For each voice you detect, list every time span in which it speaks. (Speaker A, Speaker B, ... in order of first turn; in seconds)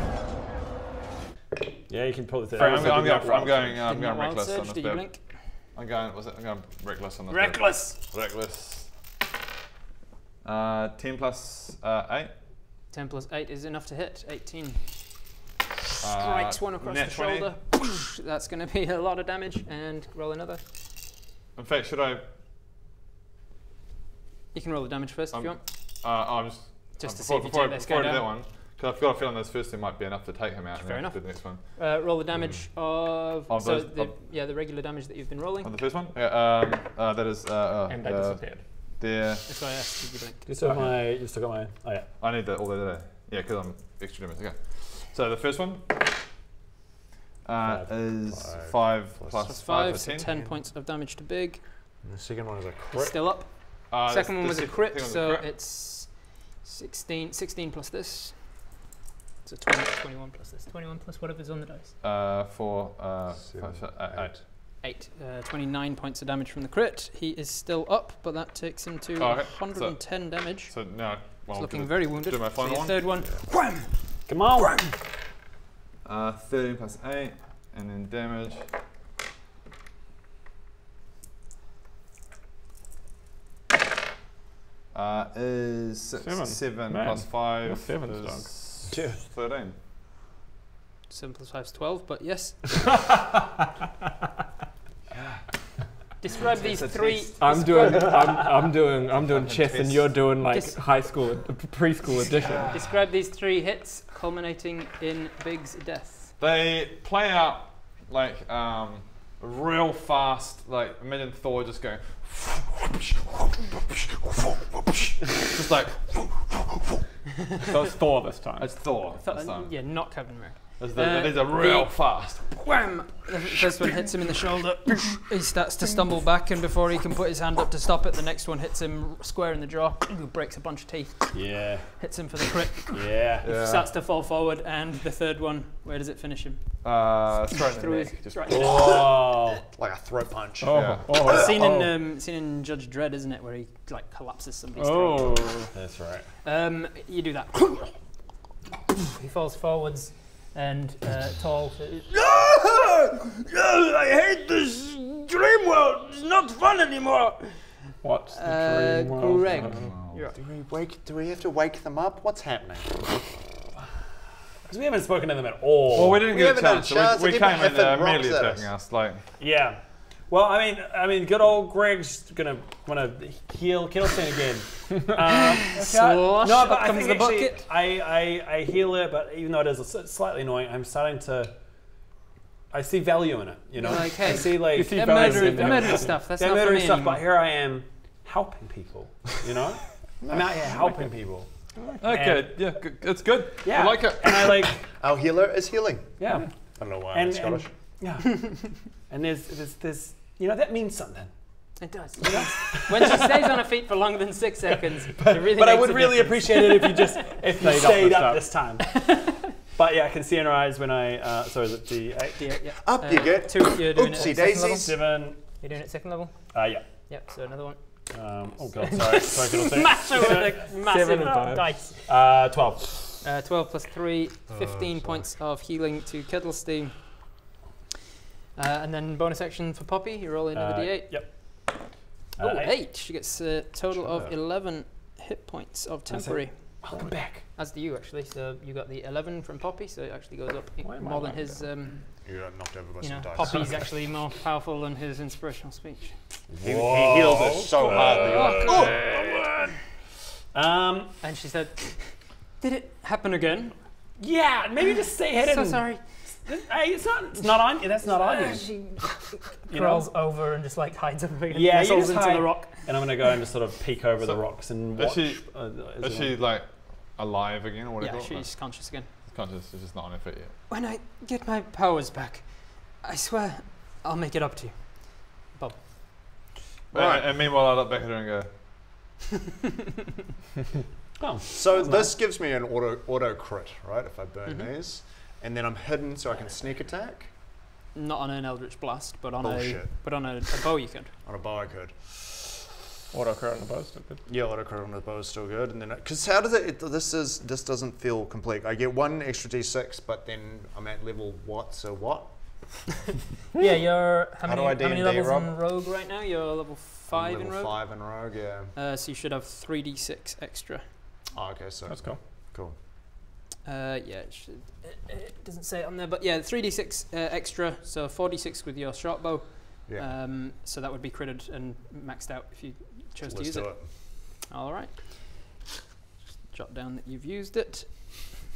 Speaker A: 1.9-3.8, 40.5-42.1, 47.6-47.9, 74.2-74.8, 97.9-98.3, 131.3-132.0, 132.9-133.5, 138.5-139.6, 145.7-146.3, 164.7-166.2, 169.4-181.6, 182.7-192.6, 193.6-194.8, 196.2-203.3, 205.2-212.5, 214.1-215.4, 216.5-216.8, 218.1-220.5, 222.1-223.2, 230.5-231.8, 232.3-232.8, 236.1-237.4, 240.8-241.5, 246.5-249.1, 250.5-251.2, 254.2-255.9, 256.4-258.9, 259.7-260.1, 261.5-266.4, 281.2-282.1
Speaker B: 2.5-8.9, 10.4-12.3, 16.0-17.5, 21.6-22.2, 25.3-31.6, 33.5-34.1, 35.6-39.5, 40.6-41.1, 42.2-46.2, 47.4-50.5, 53.9-55.5, 62.0-64.4, 69.2-73.1, 76.0-78.7, 84.9-89.8, 99.1-100.3, 106.4-116.9, 118.6-120.1, 120.8-122.4, 133.4-133.9, 136.8-138.9, 140.7-141.1, 159.5-160.2, 165.9-169.2, 192.0-194.7, 264.2-270.5, 276.9-278.5
Speaker C: 3.3-5.2, 7.3-8.0, 12.9-15.1, 16.0-20.6, 24.5-25.6, 27.0-28.3, 30.7-35.7, 39.5-40.4, 49.4-51.6, 52.9-58.7, 59.4-61.9, 64.8-73.3, 91.1-92.9, 96.2-98.3, 100.5-100.8, 102.7-106.3, 119.1-136.6, 137.7-139.5, 141.2-145.5, 146.4-147.9, 149.1-152.1, 158.3-160.4, 175.6-177.7, 183.8-187.2, 201.8-207.3, 209.1-209.4, 212.4-217.8, 218.9-222.0, 223.2-227.2, 228.6-231.7, 232.4-236.9, 237.5-242.3, 243.0-246.2, 248.0-249.2, 251.2-253.7, 255.4-256.4, 257.4-262.8, 268.0-269.1, 270.7-276.1, 284.4-284.7, 287.9-291.1, 303.5-308.1, 308.7-310.8, 313.6-325.2, 326.5-328.1
Speaker D: 37.9-38.6, 86.2-88.7, 97.3-102.8, 117.6-118.7, 140.6-141.9, 144.8-145.7, 158.0-159.8, 184.5-186.2, 207.5-208.5, 220.2-221.8, 293.1-294.2, 311.9-312.2
Speaker E: 48.3-49.5, 52.0-53.2, 63.4-64.4, 88.9-89.2, 139.7-141.4, 160.2-163.2, 166.1-168.7, 195.0-197.7, 212.8-215.0, 224.5-225.3, 242.2-244.1, 246.6-249.0, 276.9-277.3, 281.5-287.3, 289.4-290.0, 291.2-292.2, 294.3-302.8, 304.4-305.5, 307.1-308.7, 311.3-312.7, 323.2-323.9
Speaker F: 73.5-73.9, 74.5-74.9, 152.2-157.7